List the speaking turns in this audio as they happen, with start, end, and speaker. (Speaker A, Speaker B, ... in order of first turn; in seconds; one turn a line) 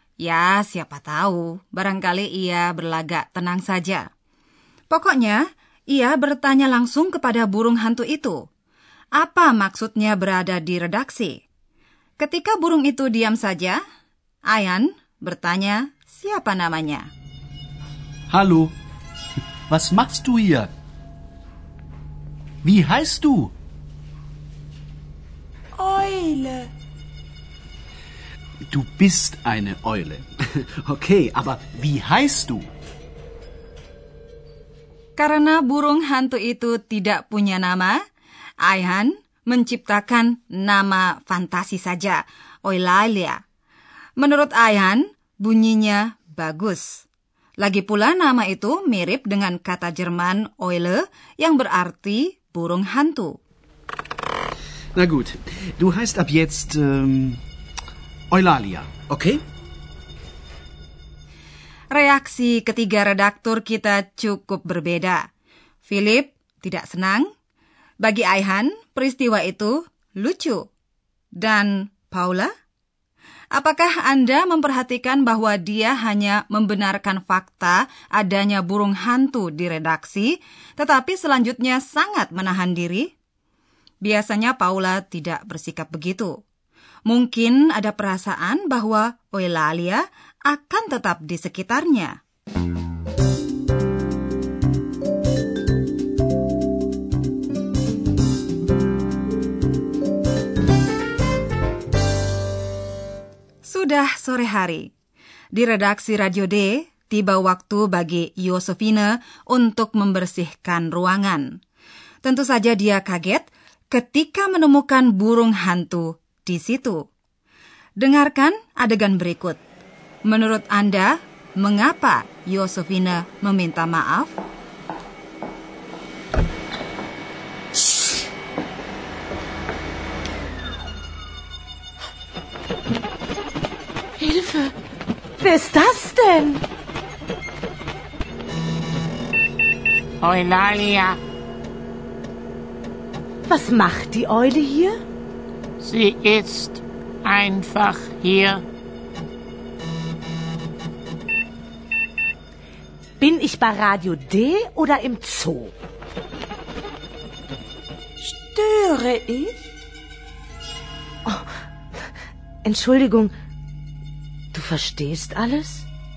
Speaker A: 0.2-4.0
Speaker A: 4.9-8.4
Speaker A: 9.2-11.4
Speaker A: 12.2-13.8
Speaker A: 14.5-17.1
Speaker B: 18.3-18.7
Speaker B: 19.7-20.7
Speaker B: 22.6-23.5
Speaker C: 25.7-26.7
Speaker B: 28.7-32.7
Speaker A: 35.2-38.0
Speaker A: 38.6-43.4
Speaker A: 44.2-47.0
Speaker A: 47.6-53.4
Speaker B: 55.0-57.4
Speaker B: 58.3-59.4
Speaker A: 61.9-65.2
Speaker A: 65.8-67.3
Speaker A: 68.0-70.6
Speaker A: 71.4-72.5
Speaker A: 73.5-83.1
Speaker A: 84.0-86.3
Speaker A: 87.1-92.2
Speaker A: 103.6-104.9
Speaker A: 105.5-111.5
Speaker A: 112.2-117.0
Speaker A: 118.0-119.6
Speaker A: 120.2-124.3
Speaker D: 134.2-134.7
Speaker D: 135.4-136.6
Speaker E: 140.2-141.2
Speaker D: 143.5-145.0
Speaker E: 145.8-148.6
Speaker D: 153.2-155.7
Speaker C: 158.2-159.6
Speaker D: 162.6-163.3
Speaker D: 164.5-165.8